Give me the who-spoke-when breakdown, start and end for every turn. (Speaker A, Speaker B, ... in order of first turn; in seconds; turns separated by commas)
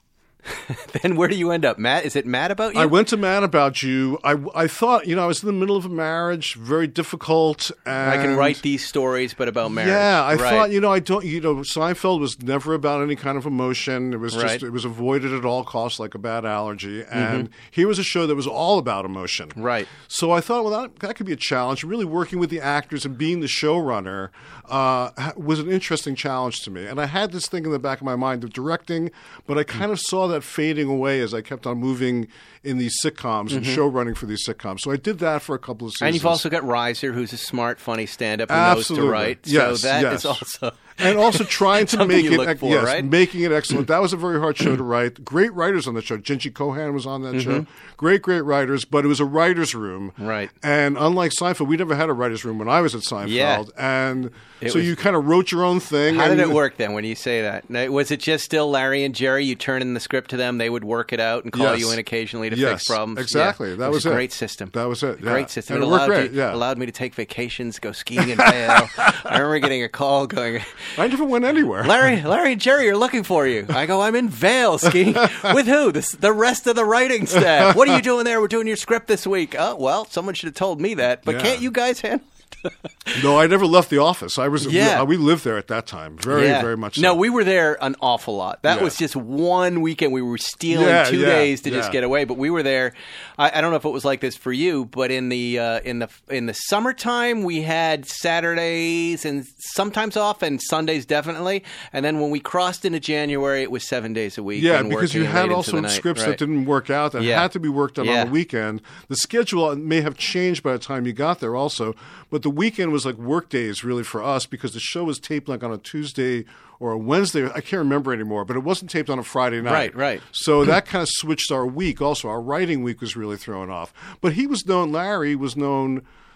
Speaker A: 0.5-2.9, Speaker B: 2.7-8.6, Speaker A: 8.0-10.7, Speaker B: 9.6-36.4, Speaker A: 14.3-14.6, Speaker A: 17.1-17.5, Speaker A: 19.6-19.9, Speaker A: 33.5-33.8, Speaker A: 36.0-43.1, Speaker B: 38.5-40.4, Speaker B: 41.0-56.6, Speaker A: 47.3-47.6, Speaker A: 50.2-50.5, Speaker A: 53.2-53.6, Speaker A: 54.6-54.9, Speaker A: 56.1-70.9, Speaker B: 61.5-66.6, Speaker B: 68.2-69.0, Speaker B: 71.0-72.1, Speaker A: 71.8-83.2, Speaker B: 74.8-75.5, Speaker B: 77.3-78.0, Speaker B: 81.2-81.7, Speaker B: 83.1-87.2, Speaker A: 84.6-85.1, Speaker A: 86.3-106.4, Speaker B: 88.7-89.0, Speaker B: 90.7-92.0, Speaker B: 104.5-126.0, Speaker A: 107.2-107.5, Speaker A: 108.0-108.3, Speaker A: 119.6-120.2